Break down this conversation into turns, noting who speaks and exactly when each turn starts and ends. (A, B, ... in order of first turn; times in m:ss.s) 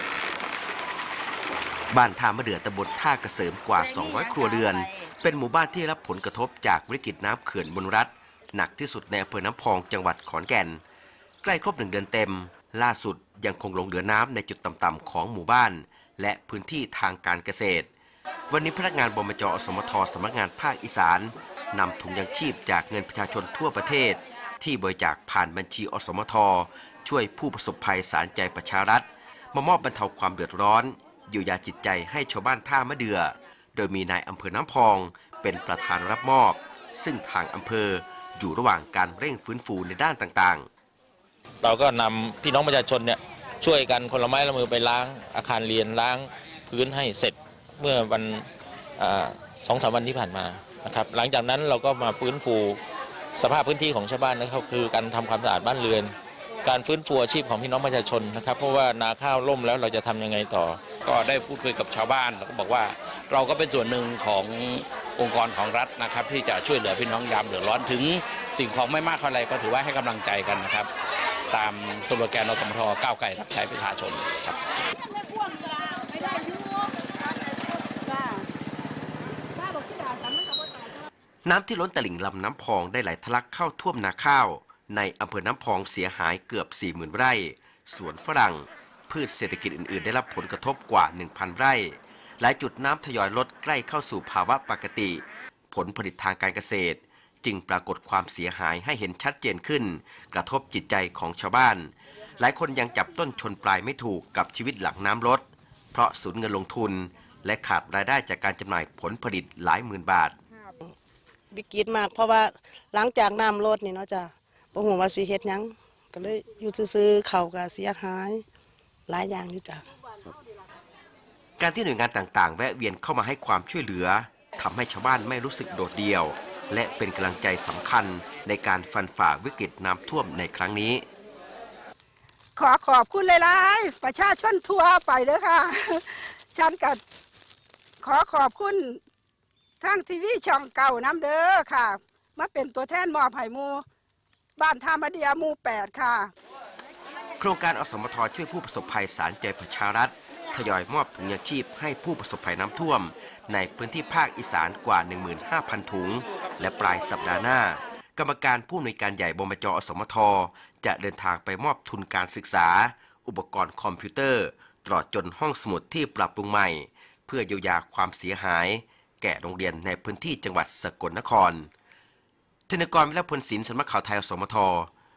0:01.9-0:10.8 A
0:11.4-0:17.9 A
0:18.5-0:40.7 A
0:41.6-0:48.5 B
0:49.0-0:52.8 B
0:53.3-1:00.8 B
1:01.0-1:10.9 C
1:11.5-1:14.6 C
1:15.0-1:18.4 D
1:19.5-1:20.9 D
1:21.4-1:50.4 A
1:51.5-1:58.4 E
1:59.1-1:59.8 E
2:01.6-2:11.0 A
2:12.6-2:17.0 D
2:18.0-2:19.0 D
2:19.8-2:23.8 D
2:24.6-2:26.3 D
2:27.4-2:51.7 A
2:52.7-2:54.9 A